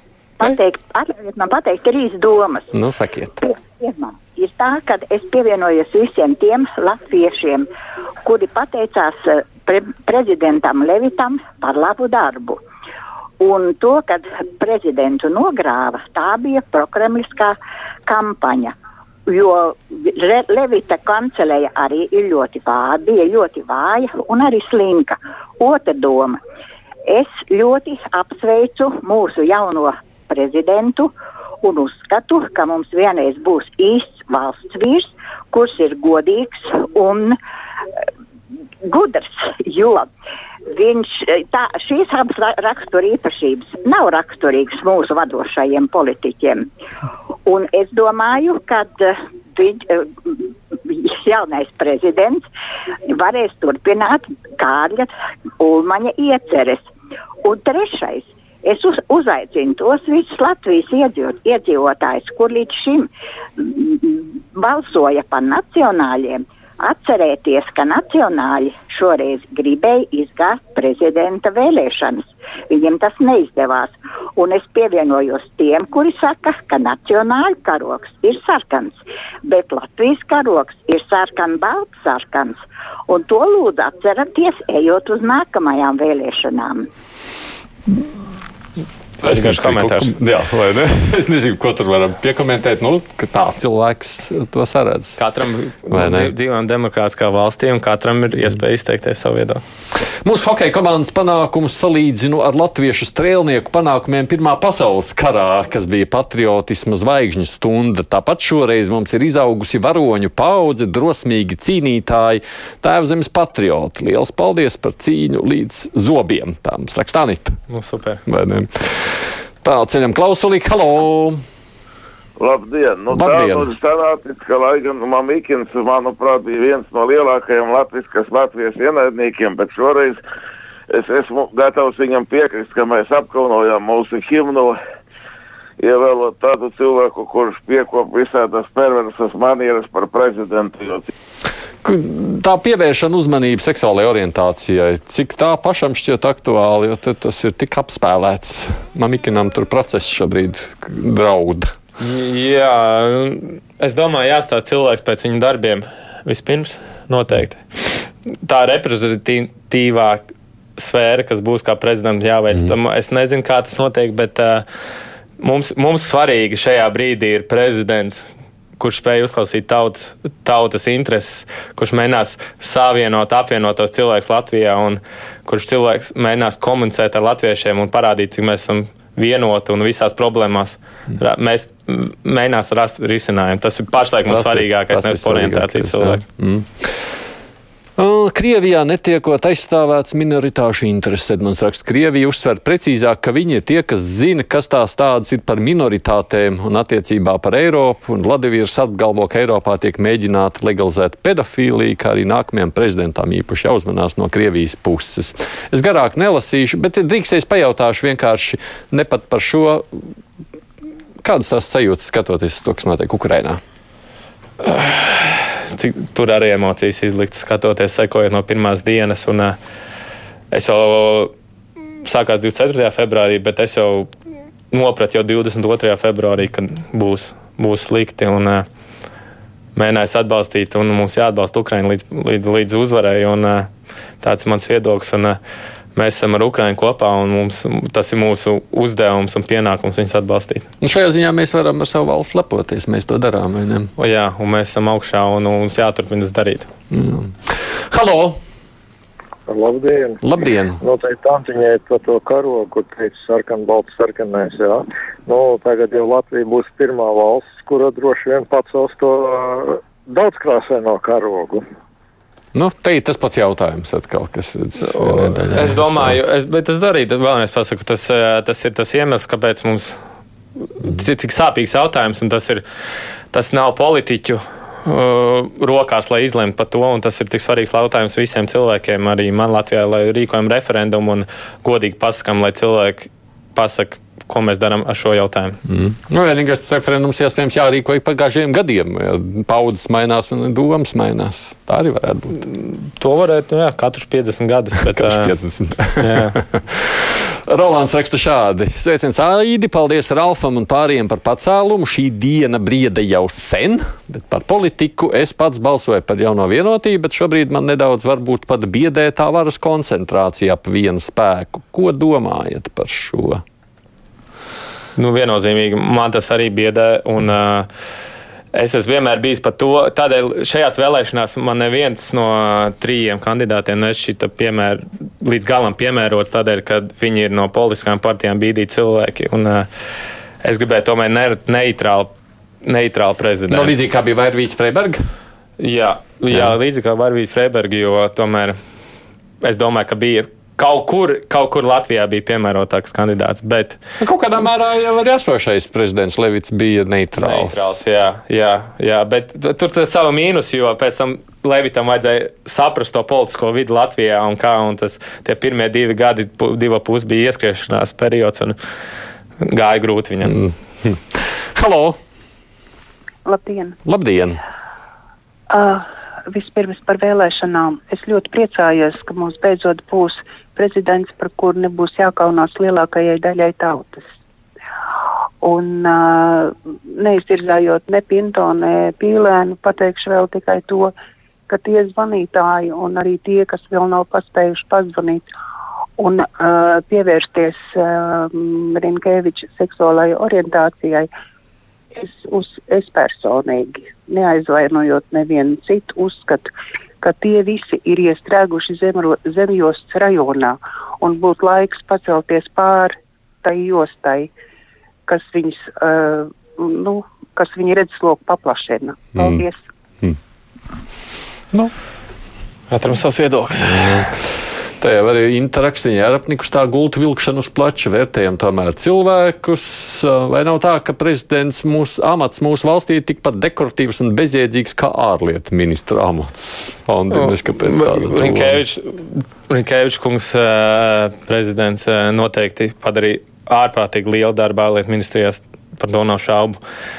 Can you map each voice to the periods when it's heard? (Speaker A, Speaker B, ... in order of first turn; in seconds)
Speaker A: 0.4-2.7, 3.4-7.7, 8.2-12.6, 13.4-17.6, 18.1-18.7, 19.3-26.4, 27.1-37.4, 38.8-40.1, 40.7-46.6, 47.5-52.4, 53.1-56.9, 57.4-86.9
Speaker B: 2.7-3.4, 89.2-95.2, 95.9-96.3, 100.2-117.6, 118.2-121.4, 123.1-123.7, 141.8-151.7, 184.3-187.1, 188.0-210.0, 211.2-213.6, 240.8-243.9, 246.9-248.4, 250.2-250.8, 262.5-266.2, 285.7-292.4, 294.9-313.4, 333.5-335.0, 336.3-336.6, 344.0-347.8, 360.2-362.0, 363.9-364.4, 409.1-409.4, 413.6-414.1, 414.8-428.6
Speaker C: 89.2-90.1, 95.2-99.6, 117.7-118.2, 152.0-160.2, 160.8-164.6, 165.4-168.2, 168.8-186.2, 214.6-219.6, 220.5-221.3, 222.0-224.1, 224.7-228.6, 229.8-233.7, 234.2-235.4, 235.9-240.7, 244.0-246.7, 264.8-270.0, 270.8-272.6, 273.3-285.6, 292.4-295.3, 296.0-296.4, 315.0-317.7, 318.5-329.7, 330.4-332.1, 332.6-333.7, 335.6-338.6, 339.4-343.8, 347.2-358.6, 359.4-360.4, 412.7-414.1, 427.1-436.6
Speaker D: 122.4-130.2, 130.9-134.8, 135.8-141.1
Speaker E: 249.5-250.2, 250.8-261.6
Speaker F: 363.2-363.8, 365.5-374.1, 375.4-380.9, 381.5-385.3, 386.0-391.1, 391.9-404.3, 405.1-409.6